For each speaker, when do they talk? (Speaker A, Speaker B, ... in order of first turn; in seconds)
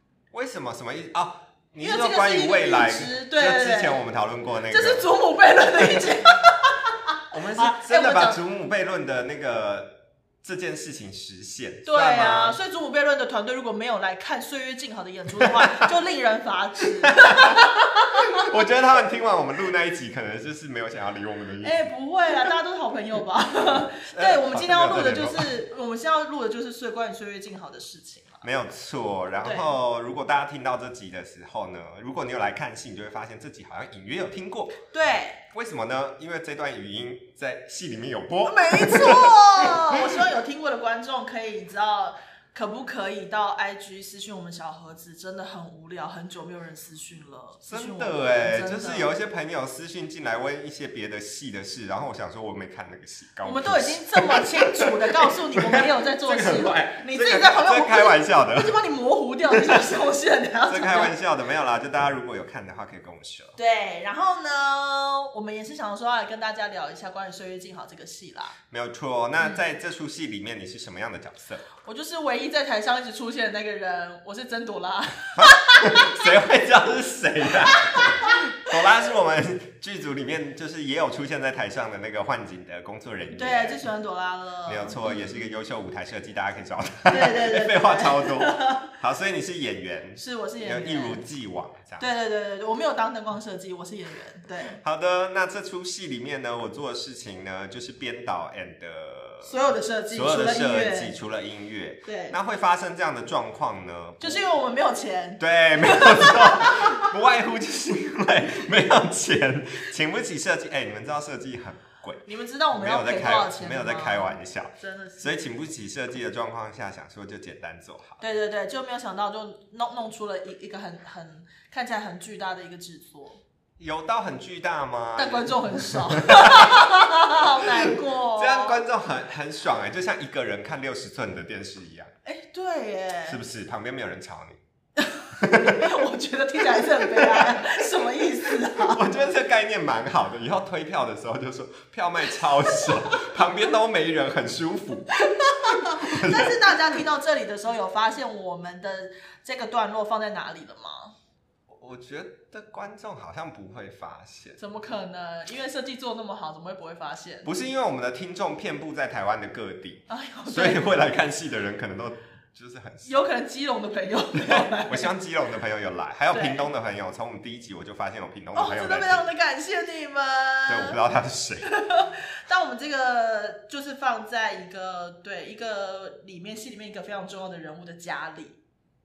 Speaker A: 0.3-5.1, 5.8-6.5, 7.3-12.6, 15.4-15.8, 17.0-22.5, 23.9-25.5, 28.4-34.8, 35.5-40.2, 47.6-54.5, 55.6-58.7, 60.7-63.5, 68.7-71.7, 75.4-83.8, 84.7-92.0, 94.8-99.5, 100.1-104.4, 105.4-118.2, 123.8-126.8, 128.3-132.1, 133.2-134.6, 135.4-135.8, 136.8-137.6, 138.8-145.1, 146.0-146.8, 151.7-154.6, 157.4-163.1, 164.4-169.2, 170.7-171.7
Speaker B: 1.8-4.0, 4.7-7.0, 7.6-8.4, 11.8-18.4, 21.6-28.4, 29.4-29.8, 34.9-35.4, 38.5-49.1, 53.4-61.1, 63.6-68.5, 71.8-76.1, 77.7-78.2, 83.3-85.4, 87.1-88.9, 90.2-91.2, 92.0-94.8, 99.4-101.1, 102.0-102.3, 104.2-106.9, 112.2-115.3, 118.2-123.4, 125.2-128.8, 132.2-133.4, 135.0-139.3, 142.8-143.4, 145.2-151.1, 154.6-157.5, 160.1-160.9, 163.0-165.1, 166.3-166.7, 168.5-170.9, 171.6-178.6